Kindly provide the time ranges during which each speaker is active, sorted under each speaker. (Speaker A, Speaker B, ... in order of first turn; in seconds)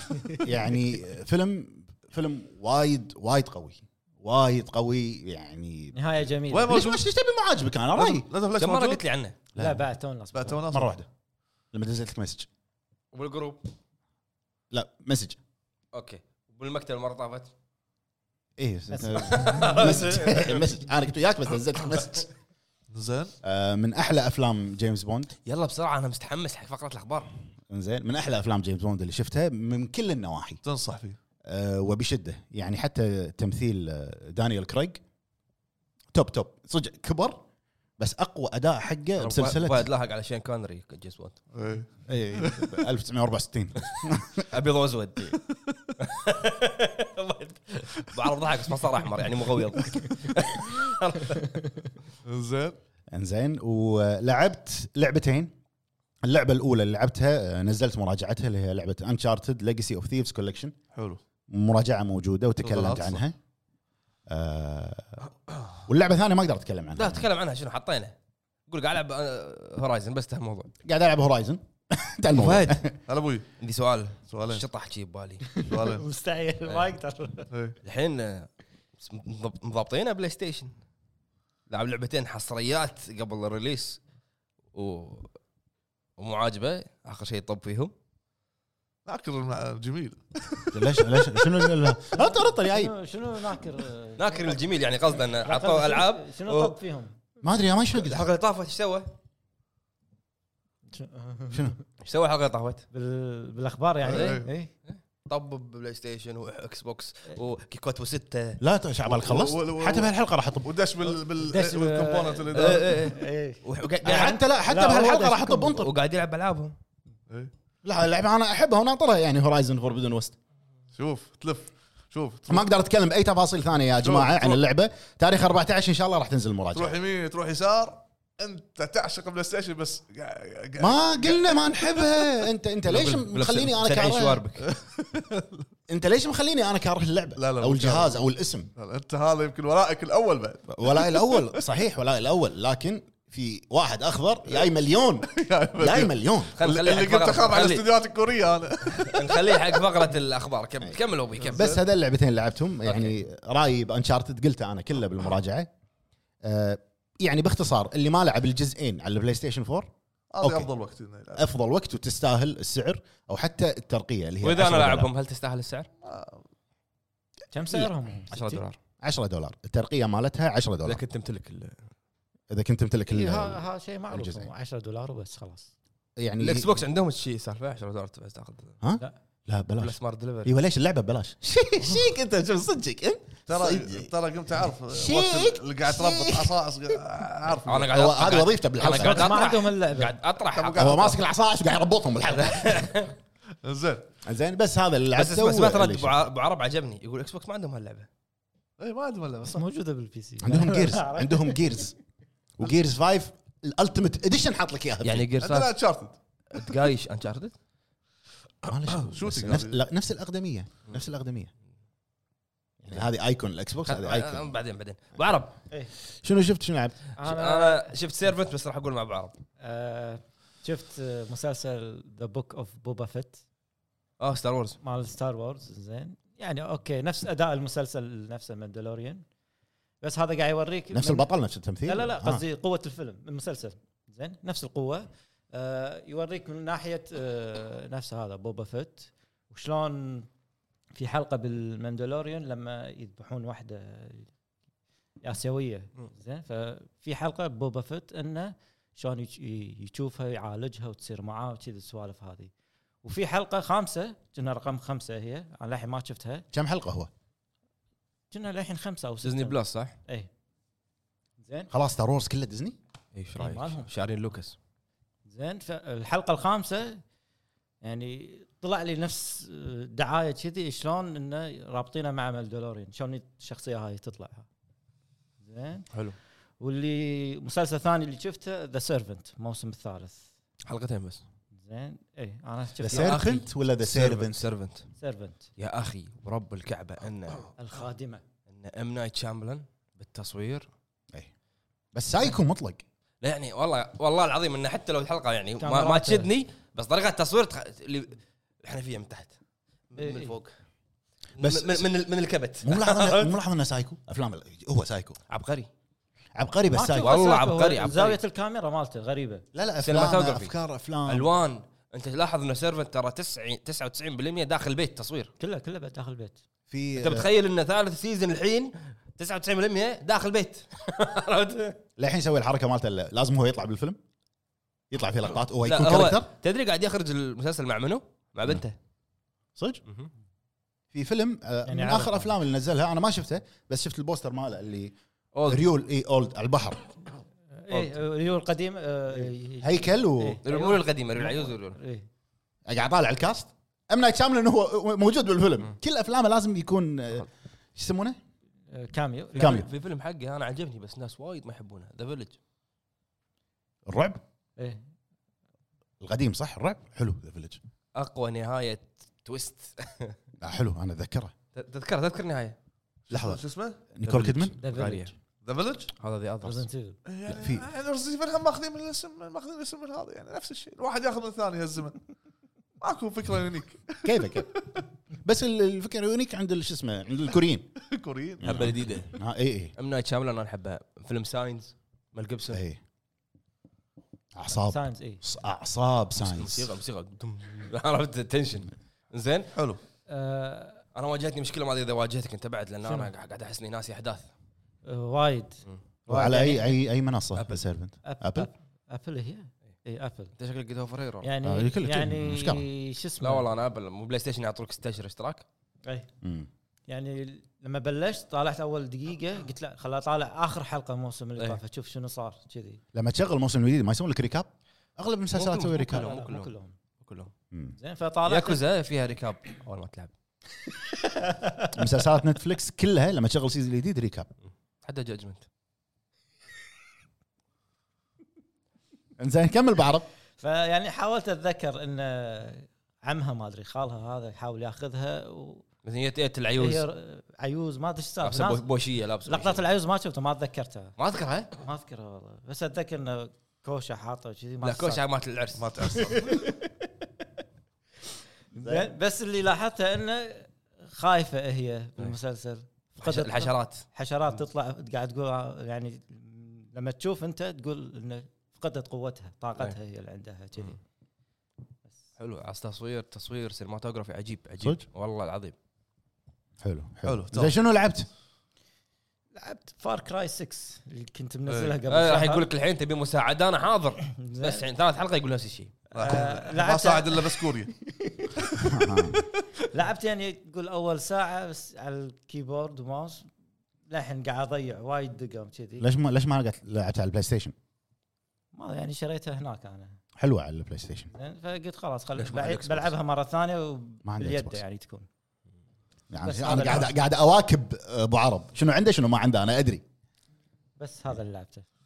Speaker A: 0.4-5.9, 6.7-8.2, 9.5-9.8, 10.7-11.1, 11.7-12.5, 14.7-15.4, 18.6-22.3, 23.4-25.3, 27.7-30.6, 31.5-35.0, 36.1-37.4, 38.0-39.9, 42.1-44.5, 53.1-55.5, 56.2-60.7, 61.5-63.3, 64.3-65.2, 65.9-67.2, 70.8-72.9, 90.7-92.9, 97.4-98.3, 108.6-110.7, 114.0-115.9, 117.8-120.3, 122.5-127.0, 130.8-134.4, 135.9-138.7, 140.7-146.5, 151.5-155.7, 156.4-160.7, 161.3-165.1, 169.0-171.0, 172.5-174.5, 176.2-176.8, 178.8-184.1, 184.9-186.6, 187.8-189.4, 190.8-192.9, 194.2-196.1, 200.4-201.9, 202.6-205.3, 208.7-211.5, 212.8-214.5, 216.2-217.0, 230.9-232.4, 256.5-257.1, 261.7-262.8, 282.8-284.5, 291.9-292.8, 301.4-301.9, 302.6-305.2, 306.3-307.2, 309.5-311.3, 316.7-317.3, 322.0-324.0, 324.9-326.3, 329.6-329.8, 330.9-334.9, 335.5-336.9, 339.6-340.4, 342.7-348.2, 349.4-349.7, 353.9-354.2, 356.0-357.6, 360.4-361.3, 363.1-363.4, 363.9-364.6, 367.3-367.7, 374.0-374.5, 375.2-377.7, 378.4-379.7, 382.5-382.8, 384.3-386.7, 396.1-398.5, 401.4-402.6, 406.2-406.5, 412.9-416.1, 421.7-424.3, 429.2-430.1, 466.6-468.1, 478.6-479.2, 485.8-487.5, 490.2-491.1, 494.0-494.6, 496.1-499.8
Speaker B: 5.9-6.8, 9.6-10.6, 18.9-19.9, 75.5-77.5, 92.1-94.6, 95.4-97.1, 100.9-101.8, 102.9-104.7, 111.4-113.6, 114.6-115.3, 167.5-168.6, 173.1-175.7, 188.8-190.2, 199.5-201.6, 217.2-217.9, 219.6-223.4, 224.8-229.2, 230.0-231.3, 231.8-240.3, 240.9-244.3, 245.2-252.5, 253.0-256.4, 258.3-260.3, 261.4-261.7, 263.4-263.9, 265.2-267.0, 267.8-274.5, 275.4-275.9, 276.6-280.3, 281.5-283.3, 285.0-285.5, 287.6-288.2, 295.6-296.3, 299.9-300.3, 306.7-309.4, 315.4-316.4, 331.6-332.3, 337.6-342.1, 348.7-349.6, 364.6-365.1, 366.4-367.0, 384.5-385.2, 390.1-390.8, 392.8-393.1, 394.8-396.8, 398.0-400.3, 401.2-403.4, 406.9-412.8, 415.8-416.7, 417.8-418.6, 421.0-421.7, 430.4-435.6, 436.6-438.6, 439.2-440.9, 441.6-445.0, 446.0-446.9, 448.6-460.8, 469.3-472.5, 474.2-474.6, 475.9-478.3, 479.7-483.3, 483.9-485.9, 488.5-490.0, 491.1-495.1, 496.2-496.9, 500.8-501.6
Speaker C: 6.5-7.0, 7.9-9.0, 10.3-11.0, 22.9-23.3, 30.6-31.2, 41.5-42.7, 52.2-52.8, 60.9-61.2, 62.6-63.2, 73.1-73.5, 74.3-74.6, 75.6-76.0, 77.5-77.8, 89.0-91.4, 104.0-104.5, 109.0-113.0, 120.9-122.7, 124.0-124.6, 126.7-132.4, 134.6-135.7, 137.4-138.2, 138.8-141.6, 145.3-149.8, 151.4-151.8, 160.3-161.5, 166.0-166.4, 183.5-187.9, 190.5-191.2, 193.6-194.1, 198.8-199.6, 205.4-206.1, 208.8-209.8, 363.1-363.8, 365.4-365.9, 367.1-372.0, 372.8-374.8, 377.9-378.7, 389.5-389.8, 445.6-446.4, 467.0-467.5, 471.5-471.8, 475.9-477.7
Speaker D: 8.6-9.3, 13.1-13.6, 15.9-17.5, 19.2-20.6, 25.4-27.3, 39.2-41.4, 43.9-45.4, 46.0-51.7, 67.0-68.1, 68.7-70.7, 72.3-72.8, 73.6-75.6, 77.8-80.7, 81.7-84.0, 84.7-85.3, 86.2-87.9, 94.2-96.8, 97.9-99.1, 102.0-102.8, 104.1-108.6, 112.5-116.7, 132.8-134.6, 146.6-147.9, 148.9-151.8, 152.8-153.1, 164.4-165.9, 168.3-168.8, 170.8-171.8, 176.4-178.7, 179.8-180.5, 187.7-191.2, 192.3-193.1, 195.2-198.1, 205.0-205.7, 206.5-207.5, 213.8-215.6, 217.2-219.4, 224.2-224.8, 259.2-259.9, 263.1-264.5, 280.6-281.2, 282.8-284.9, 285.6-287.5, 288.5-290.7, 293.2-299.3, 299.9-300.5, 301.4-303.3, 305.3-305.7, 307.0-308.2, 309.8-310.5, 311.1-315.3, 317.0-321.8, 325.6-328.7, 335.3-335.7, 340.4-341.8, 349.3-352.4, 357.9-360.1, 361.5-362.6, 364.0-365.1, 366.0-366.6, 378.4-379.1, 379.8-382.6, 386.2-389.5, 390.9-394.3, 400.4-401.3, 403.2-405.4, 415.3-417.3, 418.3-420.1, 424.8-425.4, 435.8-436.8, 438.2-439.6, 441.0-441.5, 444.6-446.0, 453.0-453.8, 462.2-465.5, 471.9-475.7, 492.2-492.9